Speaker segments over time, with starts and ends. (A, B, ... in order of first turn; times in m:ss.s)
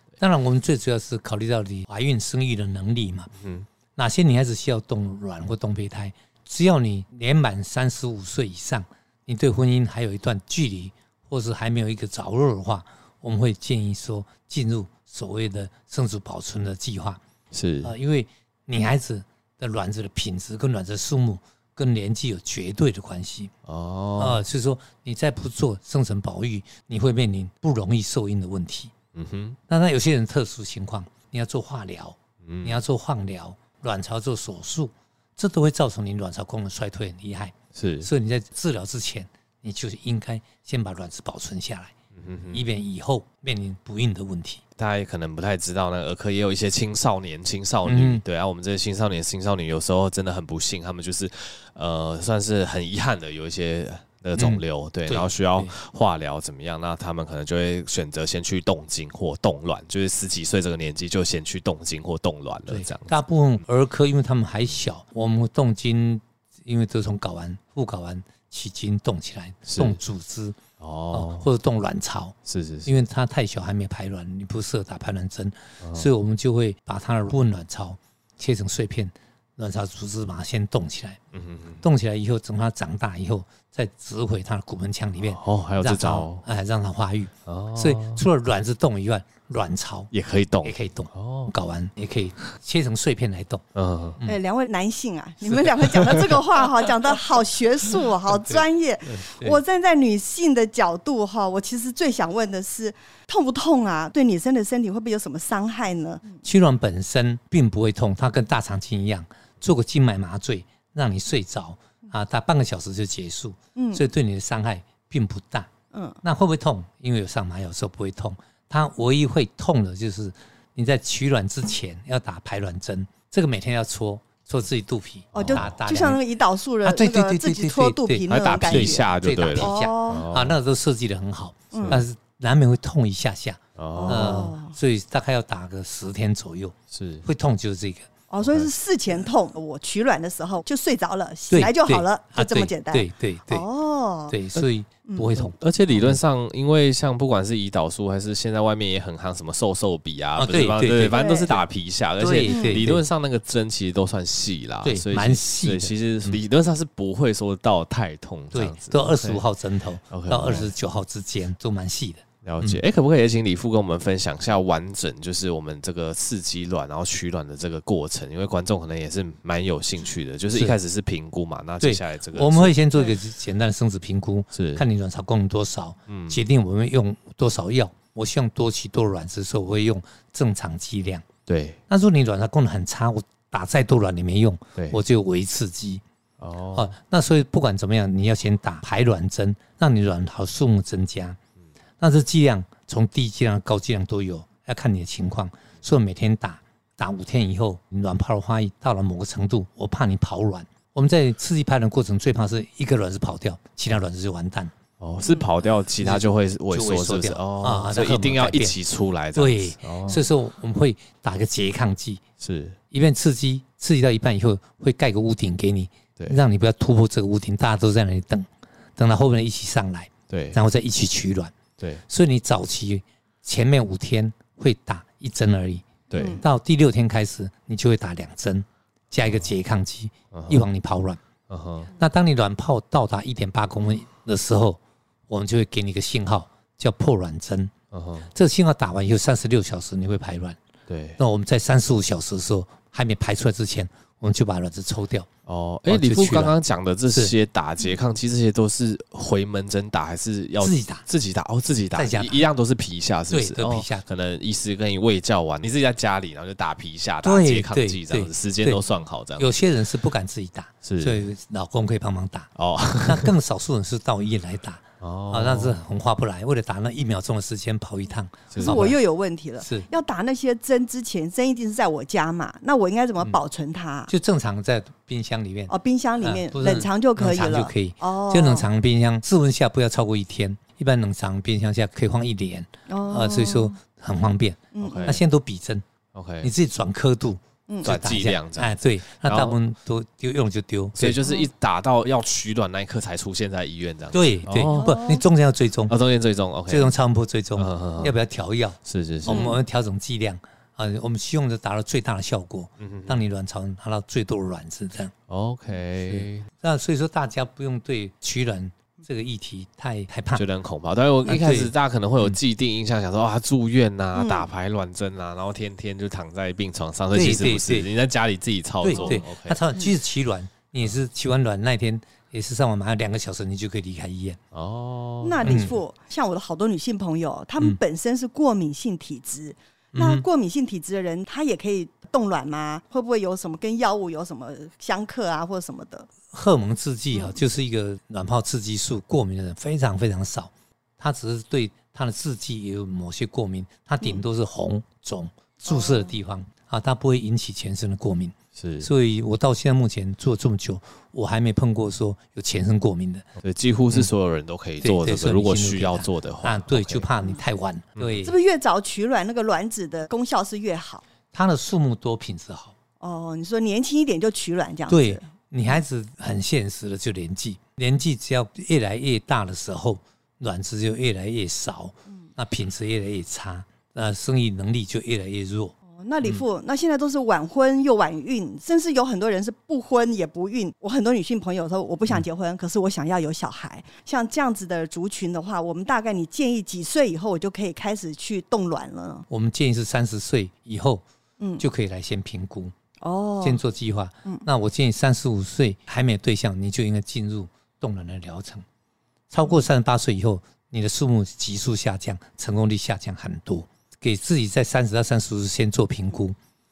0:00.2-0:03.3 A
0:03.4-0:03.7 B
0:04.0-0:17.2 A
0:17.5-0:17.9 B
0:17.8-0:23.5 A
0:23.7-0:24.4 B
0:24.2-0:28.9 A
0:29.2-0:29.6 B
0:29.7-0:41.9 A
0:32.4-0:32.8 B
0:37.8-0:38.1 B
0:42.2-0:42.6 B
0:42.5-0:44.6 A
0:44.8-1:03.1 B
0:47.8-0:48.2 A
0:54.4-0:55.8 A
1:02.7-1:10.6 A
1:09.7-1:10.0 B
1:10.8-1:11.5 B
1:11.1-1:21.2 A
1:12.5-1:13.0 B
1:15.8-1:16.1 B
1:21.3-1:21.8 B
1:21.8-1:30.1 A
1:25.2-1:26.4 B
1:27.5-1:28.2 B
1:30.1-1:31.5 B
1:30.6-1:33.6 A
1:33.8-1:34.2 B
1:34.2-1:46.4 C
1:35.6-1:36.2 B
1:38.3-1:38.6 A
1:39.2-1:39.6 A
1:46.4-1:55.7 A
1:53.8-1:54.0 C
1:55.9-1:56.2 C
1:56.2-2:06.2 A
2:05.3-2:05.7 B
2:05.5-2:10.3 C
2:06.8-2:18.1 A
2:08.3-2:10.6 B
2:11.7-2:12.0 C
2:11.8-2:12.0 B
2:13.8-2:14.5 B
2:14.0-2:14.8 C
2:16.9-2:17.3 B
2:18.3-2:24.4 C
2:18.4-2:18.7 B
2:21.5-2:23.7 A
2:24.3-2:26.2 A
2:25.4-2:39.4 B
2:30.4-2:31.6 A
2:31.1-2:31.6 C
2:32.2-2:33.0 A
2:32.4-2:32.9 C
2:34.8-2:36.4 A
2:38.5-2:42.8 A
2:40.1-2:40.7 B
2:42.4-2:52.8 B
2:51.8-3:01.3 A
2:54.5-2:54.8 B
2:56.1-2:56.4 B
3:01.5-3:01.8 B
3:01.9-3:06.0 A
3:06.4-3:06.9 B
3:06.8-3:11.4 A
3:12.0-3:24.8 A
3:25.0-3:30.2 B
3:25.2-3:25.5 C
3:26.0-3:28.8 A
3:29.4-3:32.2 A
3:32.4-3:32.8 B
3:32.9-3:41.6 A
3:40.3-3:40.6 B
3:42.1-3:45.9 A
3:46.1-3:46.4 B
3:46.2-3:46.4 C
3:46.4-3:51.2 A
3:49.2-3:49.5 B
3:50.3-3:50.7 B
3:51.5-3:51.9 B
3:52.0-3:57.7 A
3:57.9-3:58.3 B
3:58.3-4:00.6 A
4:00.9-4:01.2 B
4:01.2-4:05.3 A
4:05.5-4:19.5 B
4:05.9-4:06.6 A
4:10.6-4:11.1 A
4:12.0-4:12.4 A
4:13.3-4:14.1 A
4:17.2-4:18.8 A
4:19.4-4:22.5 A
4:20.8-4:21.2 B
4:22.6-4:23.3 B
4:23.0-4:29.0 A
4:25.0-4:25.8 B
4:28.5-4:28.9 B
4:28.6-4:34.1 C
4:29.6-4:29.9 A
4:34.1-4:45.8 A
4:35.7-4:38.7 C
4:42.9-4:43.8 C
4:44.7-4:45.2 C
4:44.8-4:45.2 B
4:46.1-4:46.5 B
4:46.4-4:51.2 A
4:47.7-4:47.9 C
4:47.8-4:49.6 B
4:51.0-4:54.9 B
4:54.1-4:55.9 A
4:54.7-4:55.2 C
4:55.9-4:57.0 B
4:56.7-5:05.1 A
4:57.6-4:58.2 B
4:58.8-4:59.5 B
4:59.3-4:59.6 C
5:02.8-5:03.2 B
5:05.3-5:06.5 B
5:06.1-5:10.4 A
5:10.4-5:19.6 B
5:11.2-5:12.4 A
5:14.1-5:14.5 C
5:17.1-5:17.9 A
5:18.8-5:24.4 A
5:18.9-5:19.2 C
5:24.5-5:25.7 B
5:25.2-5:36.1 C
5:25.4-5:25.8 A
5:29.9-5:30.3 A
5:36.3-5:53.3 A
5:37.1-5:37.4 C
5:45.6-5:46.2 C
5:48.6-5:48.9 B
5:53.4-5:57.1 B
5:54.8-5:58.3 A
5:58.0-5:58.3 B
5:58.2-6:01.0 C
6:01.3-6:02.8 A
6:03.0-6:05.7 C
6:04.9-6:16.4 A
6:15.9-6:29.3 C
6:29.3-6:31.0 A
6:31.4-6:31.7 C
6:31.6-6:32.7 A
6:33.0-6:33.6 C
6:33.4-6:38.6 A
6:39.3-6:46.4 A
6:39.4-6:39.7 C